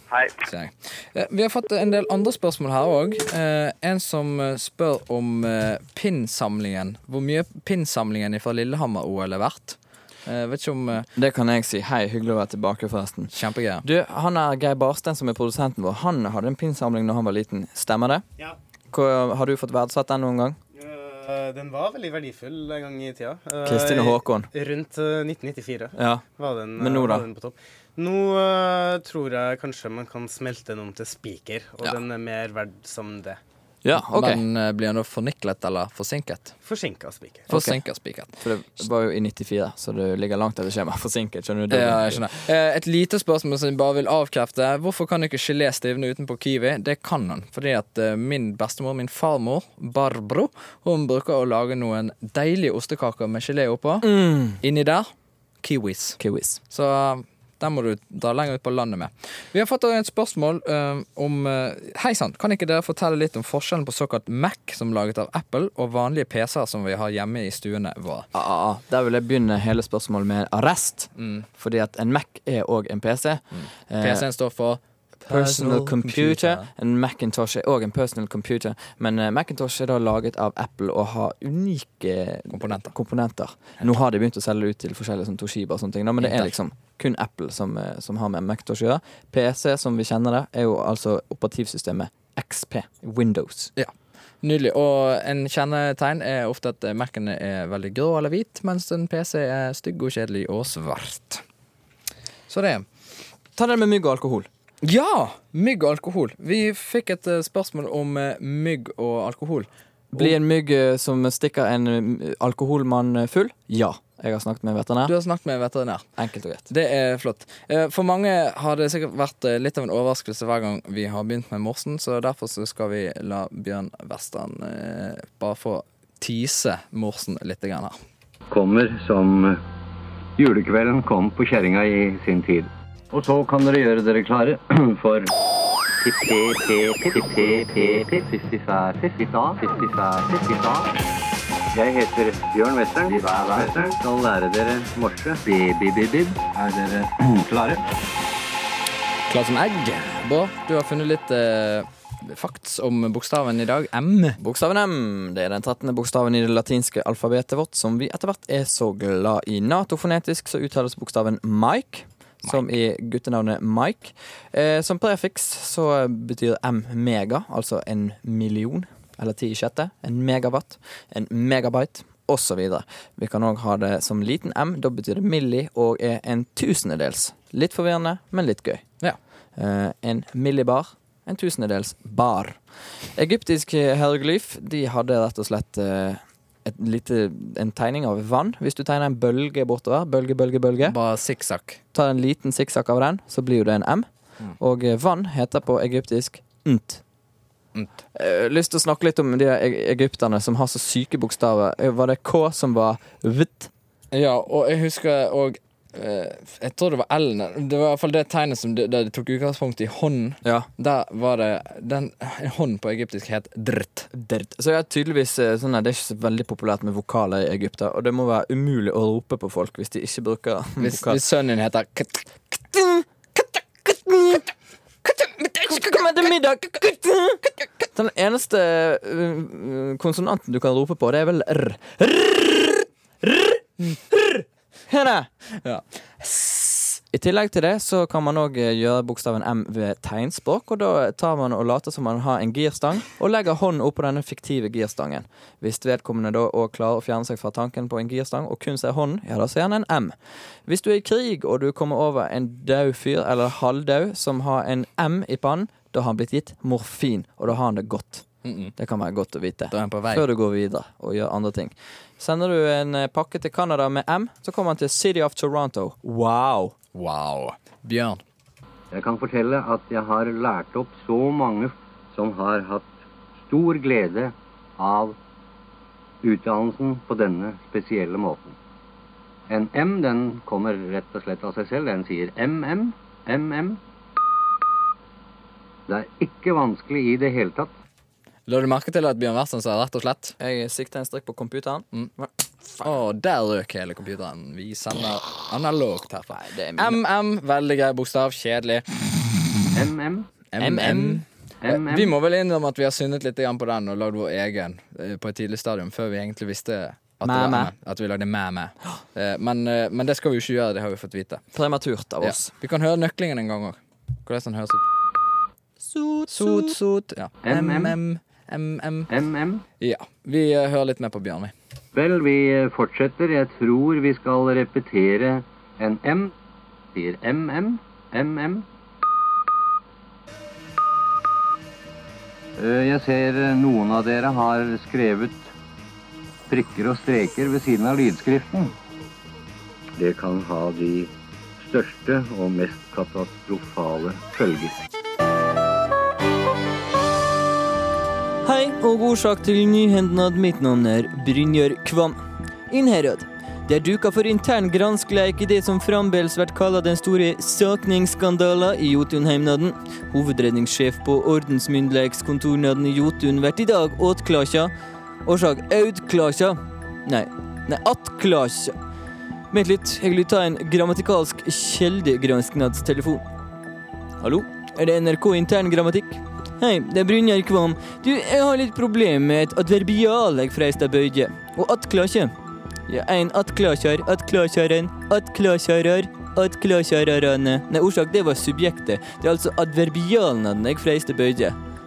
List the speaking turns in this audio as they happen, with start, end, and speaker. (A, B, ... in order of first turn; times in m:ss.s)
0:00.4-0:11.1 A
0:11.2-0:18.2 B
0:13.3-0:13.8 A
0:18.9-0:20.6 B
0:20.8-0:33.4 C
0:23.6-0:24.5 B
0:26.0-0:26.2 B
0:26.8-0:27.3 B
0:33.8-0:34.4 B
0:34.0-0:36.5 A
0:36.6-0:37.5 C
0:37.5-0:37.8 B
0:37.5-0:38.3 A
0:38.4-0:42.2 B
0:41.7-0:55.1 A
0:54.0-0:54.6 B
0:55.6-0:56.2 A
0:56.2-0:56.6 B
0:56.7-1:08.3 A
1:08.3-1:14.3 B
1:11.2-1:11.5 A
1:13.6-1:16.7 A
1:15.3-1:33.7 B
1:22.5-1:22.9 A
1:26.2-1:26.5 A
1:33.8-1:41.4 A
1:42.5-1:42.8 A
1:43.6-1:44.5 B
1:44.8-1:50.4 A
1:50.1-1:55.1 B
1:55.1-1:56.1 A
1:56.2-1:56.7 B
1:56.7-2:08.0 A
2:08.5-2:09.6 D
2:10.4-2:15.3 D
2:16.0-2:20.9 D
2:21.7-2:27.9 D
2:29.3-2:34.4 A
2:34.4-2:58.9 B
2:59.6-3:02.6 B
3:03.2-3:11.0 B
3:10.8-3:11.8 A
3:11.9-3:14.1 B
3:14.6-3:17.0 B
3:18.1-3:23.7 B
3:24.1-3:34.1 A
3:34.1-3:41.2 B
3:40.8-3:42.3 A
3:42.7-3:43.1 B
3:43.8-3:44.5 B
3:45.0-3:45.8 A
3:45.6-3:55.3 B
3:55.6-3:57.0 A
3:57.1-4:10.2 B
4:10.7-4:26.8 B
4:18.4-4:18.7 A
4:19.7-4:20.2 A
4:26.9-4:28.2 A
4:28.9-4:32.9 D
4:33.5-4:35.2 D
4:36.2-4:38.6 D
4:39.5-4:43.8 D
4:45.9-4:47.7 D
4:48.5-4:50.4 A
4:50.4-4:52.9 B
4:52.8-4:58.8 A
4:56.3-4:57.0 B
4:59.8-5:00.3 D
5:00.5-5:11.4 A
5:00.6-5:01.2 B
5:01.6-5:02.2 D
5:07.2-5:07.7 B
5:11.5-5:12.5 B
5:12.2-5:14.8 A
5:15.8-5:16.8 B
5:16.3-5:19.1 A
5:17.4-5:18.0 D
5:19.1-5:19.6 D
5:19.8-5:21.5 A
5:21.9-5:26.3 D
5:26.9-5:28.7 D
5:32.6-5:35.5 D
5:36.5-5:38.8 D
5:40.0-5:44.8 D
5:48.4-6:04.7 B
6:05.2-6:08.8 B
6:09.5-6:13.2 B
6:14.2-6:22.4 B
6:22.9-6:31.6 B